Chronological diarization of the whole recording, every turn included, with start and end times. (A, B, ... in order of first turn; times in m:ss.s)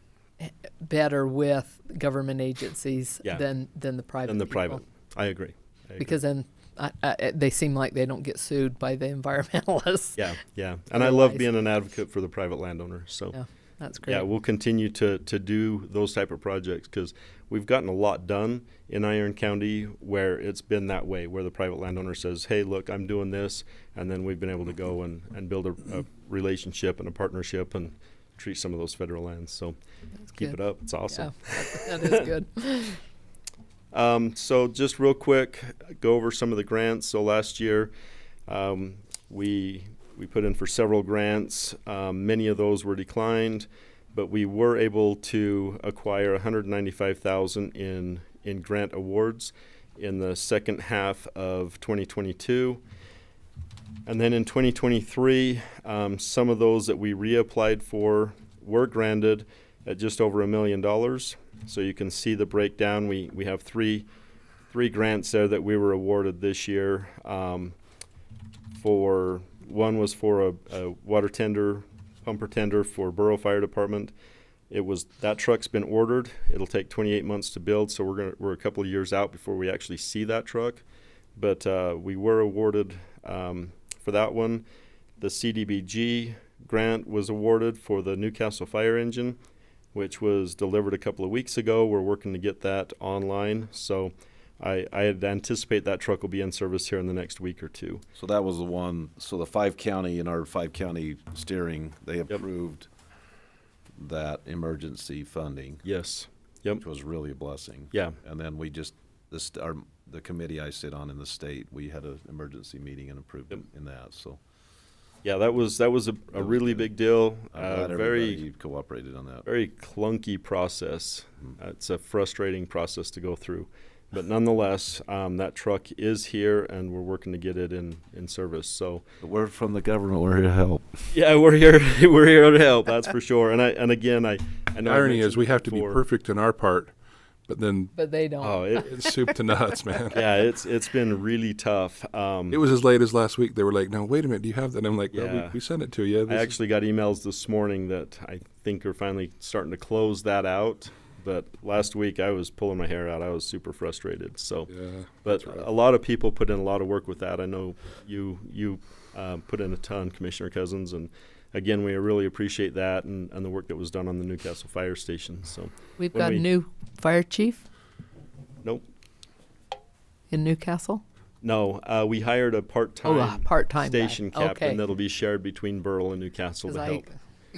0:00.4-0:04.8 A
0:04.3-0:06.2 B
0:06.0-0:10.2 A
0:10.2-0:13.4 B
0:11.0-0:11.5 A
0:13.3-0:14.3 A
0:14.1-0:29.8 B
0:30.2-0:30.6 A
0:30.4-0:32.2 B
0:31.1-0:33.0 A
0:33.9-0:37.9 B
0:38.5-0:52.8 B
0:54.1-1:04.1 B
1:04.7-1:07.8 B
1:08.8-1:14.1 B
1:14.7-1:20.8 B
1:21.4-1:24.6 B
1:25.2-1:29.4 B
1:29.9-1:38.0 B
1:38.2-1:42.9 C
1:44.0-1:45.8 C
1:45.8-1:46.8 B
1:46.8-1:54.4 C
1:55.2-1:58.5 B
1:56.4-1:56.9 C
1:57.5-1:59.5 C
1:59.4-2:09.0 B
2:09.2-2:11.0 C
2:11.1-2:16.0 B
2:14.8-2:16.9 D
2:17.5-2:17.9 D
2:18.0-2:19.1 A
2:18.4-2:19.0 B
2:18.8-2:20.2 D
2:20.1-2:22.6 B
2:22.5-2:26.6 D
2:25.1-2:25.6 B
2:26.3-2:34.7 B
2:34.7-2:35.6 D
2:35.2-2:46.5 B
2:46.0-2:47.7 A
2:50.3-2:51.0 A
2:51.4-2:57.1 B
2:53.0-2:54.8 A
2:56.7-2:57.2 A